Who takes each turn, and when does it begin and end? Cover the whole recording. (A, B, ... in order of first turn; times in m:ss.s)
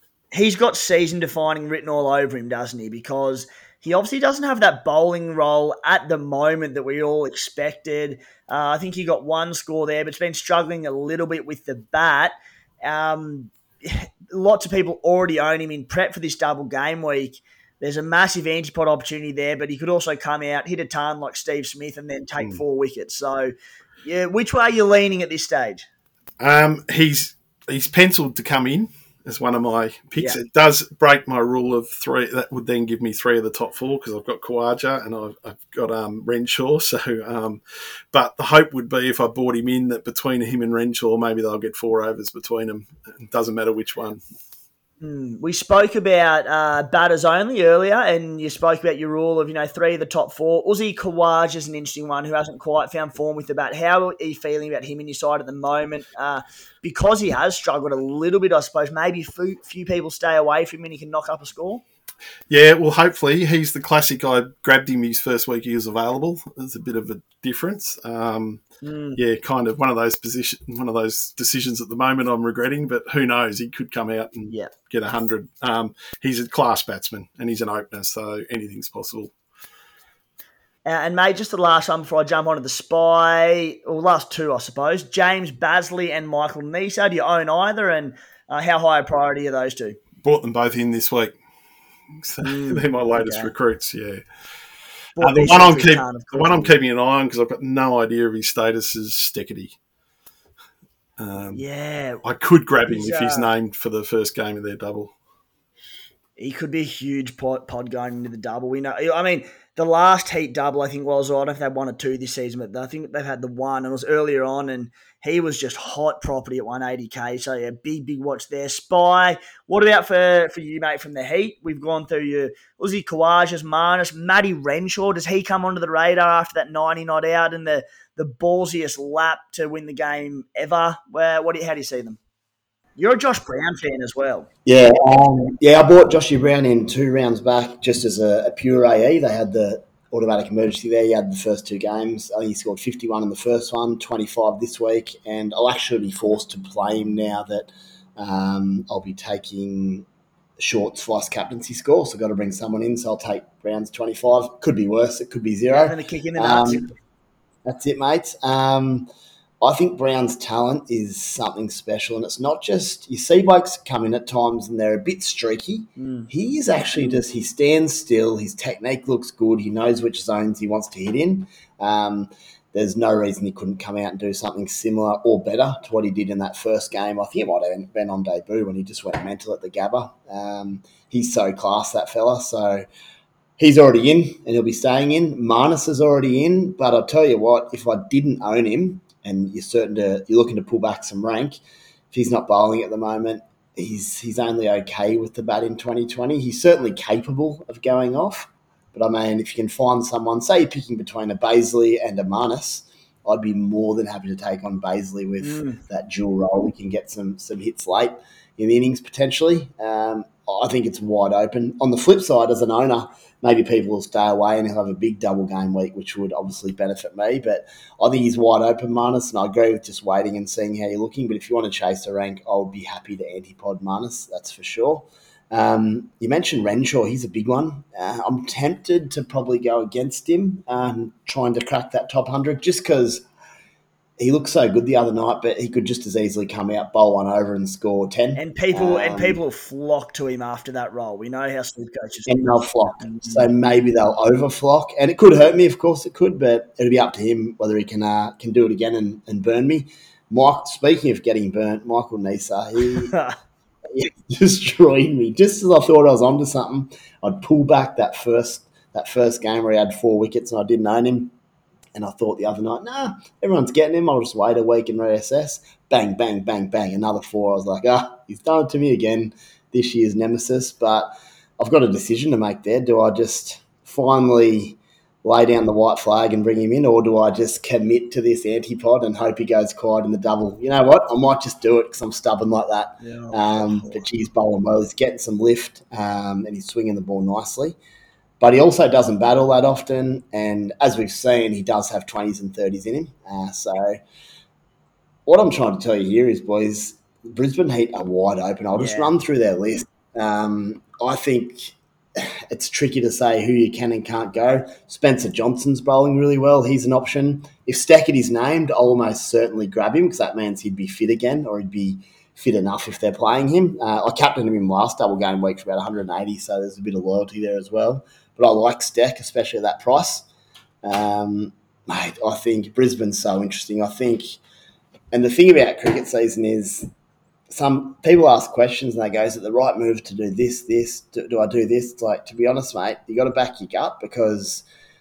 0:00.3-0:23.5 A
0:24.0-0:25.8 A
0:26.4-0:37.6 B
0:38.1-0:44.2 B
0:45.0-1:01.8 A
1:02.5-1:08.6 B
1:08.8-1:09.2 A
1:09.2-1:19.3 B
1:20.8-1:30.0 A
1:30.2-1:31.4 B
1:32.1-1:34.2 B
1:32.4-1:33.5 A
1:35.2-1:36.7 A
1:35.2-1:39.7 B
1:41.2-1:41.6 B
1:41.5-1:42.2 A
1:42.2-1:45.1 B
1:42.9-1:43.5 A
1:46.4-2:12.2 A
2:13.0-2:14.5 A
2:14.6-2:30.0 C
2:30.6-2:36.9 C
2:35.7-2:36.9 A
2:37.6-2:39.1 C
2:39.6-3:02.8 C
2:46.0-2:46.3 A
3:03.6-3:11.6 C
3:12.1-3:53.2 C
3:25.4-3:25.8 A
3:54.2-3:59.4 C
3:58.4-4:03.5 A
4:02.3-4:13.1 C
4:12.8-4:13.4 A
4:13.9-4:21.3 C
4:21.9-4:31.1 C
4:31.6-4:47.8 C
4:43.0-4:44.0 A
4:48.4-4:54.0 C
4:55.2-5:20.2 C
4:58.8-4:59.1 A
5:20.8-5:24.4 C
5:25.1-5:26.9 C
5:27.5-5:34.6 C